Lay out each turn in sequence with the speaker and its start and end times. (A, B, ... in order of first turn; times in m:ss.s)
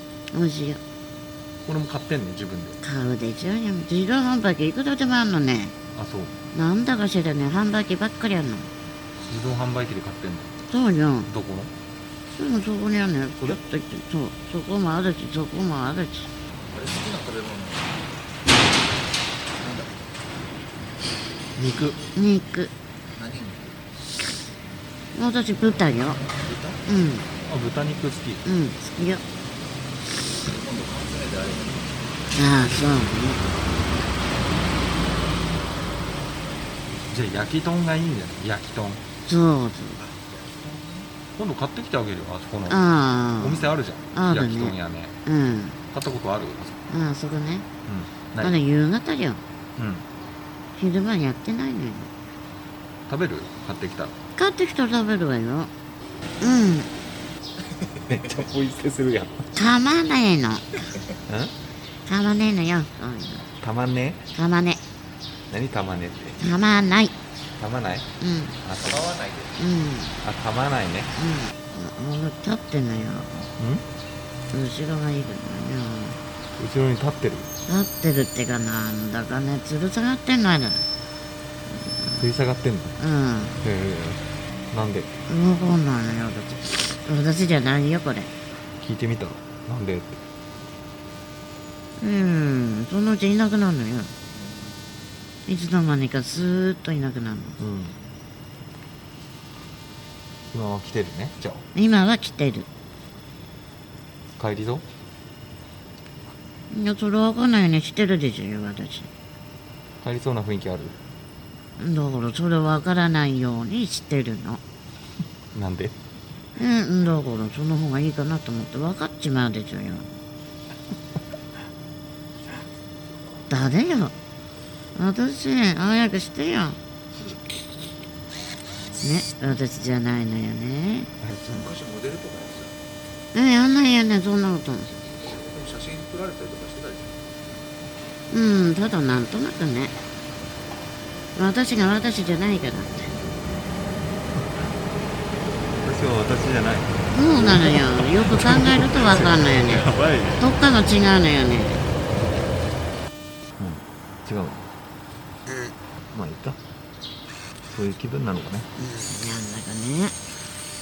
0:00.3-0:00.8 A
0:01.6-0:02.8 B
0:02.8-0:05.8 A
0:05.9-0:06.4 B
0:06.5-0:08.7 A
0:09.2-0:10.5 B
0:10.7-0:11.3 A
0:11.3-0:11.7 B
0:12.4-0:16.3 A
0:16.7-0:18.1 C
0:19.6-0:19.9 C
0:21.6-0:22.0 B
0:22.1-0:22.7 A
0:23.1-0:23.8 C
0:25.1-0:26.2 A
0:26.4-0:26.8 C
0:26.9-0:27.3 A
0:27.4-0:28.4 B
0:28.4-0:29.2 A
0:30.5-0:32.0 C
0:32.3-0:33.5 A
0:37.1-0:39.0 B
0:39.2-0:40.0 A
0:40.0-0:41.1 C
0:41.3-0:42.9 B
0:42.7-0:45.8 A
0:43.4-0:45.1 B
0:45.9-0:46.8 B
0:46.9-0:47.6 A
0:47.8-0:48.6 B
0:48.4-0:49.4 A
0:49.8-0:50.1 B
0:50.8-0:52.1 A
0:53.1-0:54.1 B
0:54.4-0:55.7 A
0:56.4-0:56.9 A
0:58.0-0:59.4 B
0:59.6-1:00.9 A
1:01.3-1:01.6 B
1:02.1-1:03.5 A
1:03.6-1:04.3 B
1:04.4-1:04.8 A
1:05.5-1:06.4 B
1:06.4-1:07.1 A
1:07.6-1:08.1 B
1:08.2-1:08.6 A
1:08.6-1:09.1 B
1:08.9-1:09.6 C
1:09.6-1:10.2 A
1:10.2-1:11.1 B
1:11.2-1:13.5 A
1:13.6-1:13.9 B
1:14.5-1:16.2 A
1:16.6-1:17.5 B
1:17.6-1:20.9 A
1:22.1-1:23.0 B
1:23.0-1:23.6 A
1:23.6-1:25.1 B
1:25.3-1:28.3 A
1:28.8-1:30.2 B
1:32.0-1:34.1 A
1:34.4-1:34.8 C
1:35.5-1:37.6 A
1:37.6-1:38.0 B
1:40.5-1:41.6 B
1:41.7-1:42.7 A
1:44.4-1:44.9 B
1:46.7-1:49.1 A
1:50.0-1:51.0 B
1:51.8-1:54.6 A
1:55.5-1:56.0 B
1:56.6-2:00.1 A
2:03.5-2:04.1 A
2:05.0-2:06.8 A
2:07.1-2:07.4 C
2:09.0-2:11.7 A
2:11.5-2:12.8 C
2:13.3-2:15.1 A
2:15.2-2:17.2 C
2:18.3-2:20.0 A
2:21.4-2:23.1 A
2:25.8-2:30.4 B
2:27.1-2:31.9 A
2:33.6-2:34.7 B
2:35.5-2:35.7 A
2:36.1-2:36.6 B
2:37.7-2:38.7 B
2:38.8-2:40.2 A